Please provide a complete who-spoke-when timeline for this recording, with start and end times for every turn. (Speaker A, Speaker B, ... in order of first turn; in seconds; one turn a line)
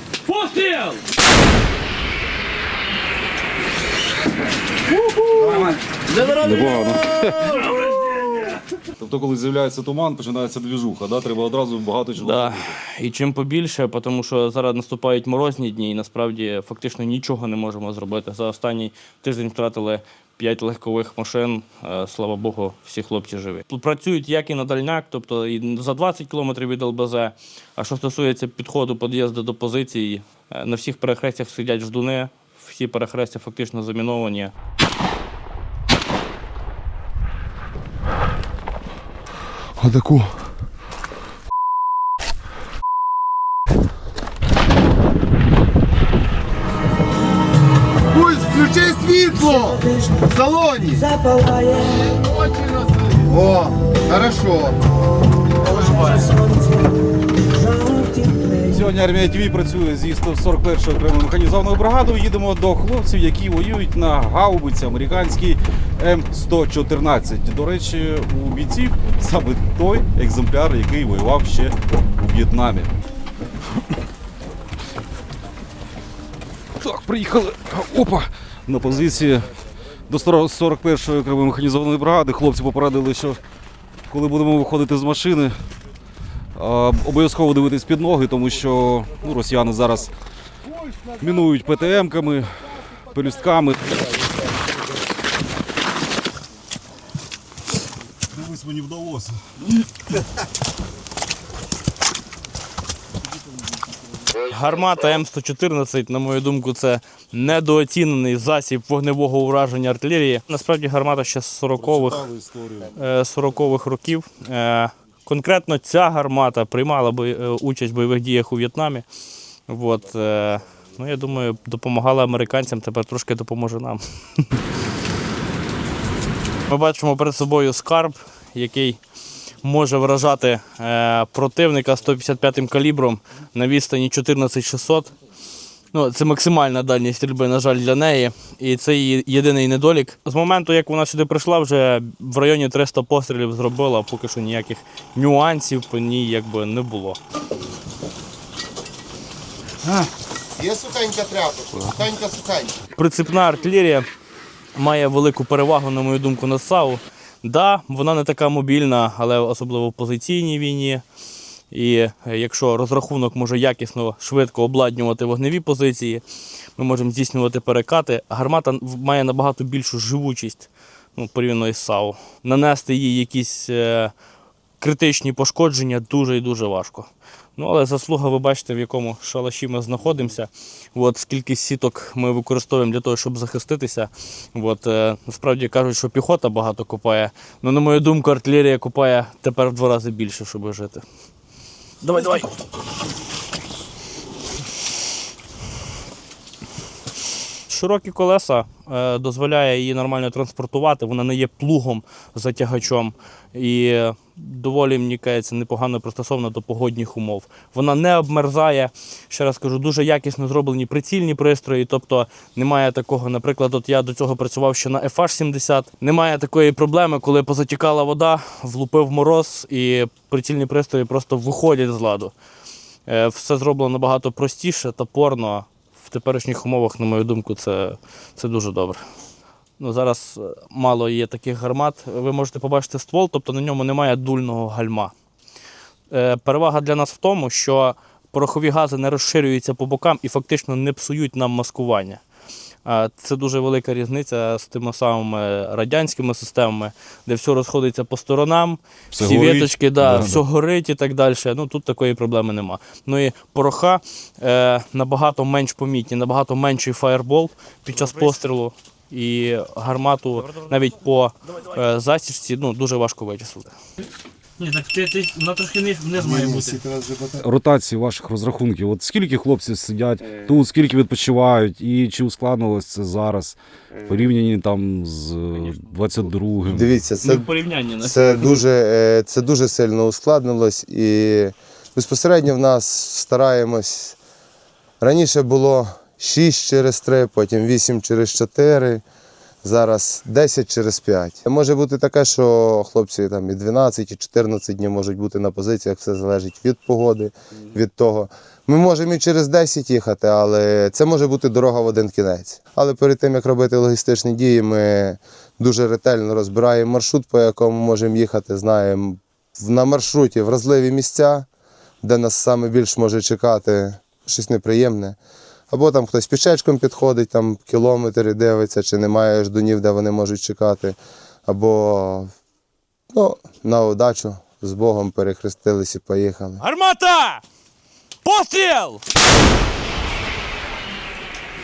Speaker A: 0.3-1.0
Speaker B: 5.3-8.3
Speaker B: 9.0-12.8
Speaker A: 12.2-34.5
Speaker C: 39.8-40.4
Speaker C: 48.1-51.2
Speaker C: 53.1-54.8
Speaker C: 55.6-56.3
Speaker B: 58.6-72.9
Speaker B: 76.8-79.5
Speaker B: 80.1-83.4
Speaker B: 84.1-85.5
Speaker B: 86.6-90.1
Speaker B: 91.2-93.8
Speaker B: 98.3-99.4
Speaker A: 104.5-112.2
Speaker B: 111.8-112.9
Speaker A: 112.9-119.0
Speaker A: 119.7-124.6
Speaker A: 126.7-129.0
Speaker A: 129.6-135.1
Speaker A: 135.9-147.2
Speaker C: 150.6-152.8
Speaker A: 152.9-154.1
Speaker A: 154.8-161.0
Speaker A: 161.7-166.2
Speaker A: 166.8-174.1
Speaker A: 174.8-191.0
Speaker A: 192.0-192.4
Speaker A: 197.7-222.3
Speaker A: 223.1-229.0
Speaker A: 229.8-235.1
Speaker A: 236.1-242.2
Speaker A: 242.8-263.7
Speaker B: 249.1-250.4
Speaker A: 264.6-266.8
Speaker C: 266.2-267.4
Speaker B: 267.4-276.9
Speaker C: 276.7-277.5
Speaker A: 277.2-278.6
Speaker C: 278.0-284.2
Speaker C: 285.0-289.0
Speaker C: 289.6-311.5
Speaker C: 312.0-315.2
Speaker C: 315.7-322.3
Speaker C: 323.1-326.6
Speaker A: 326.6-327.4
Speaker A: 328.2-329.0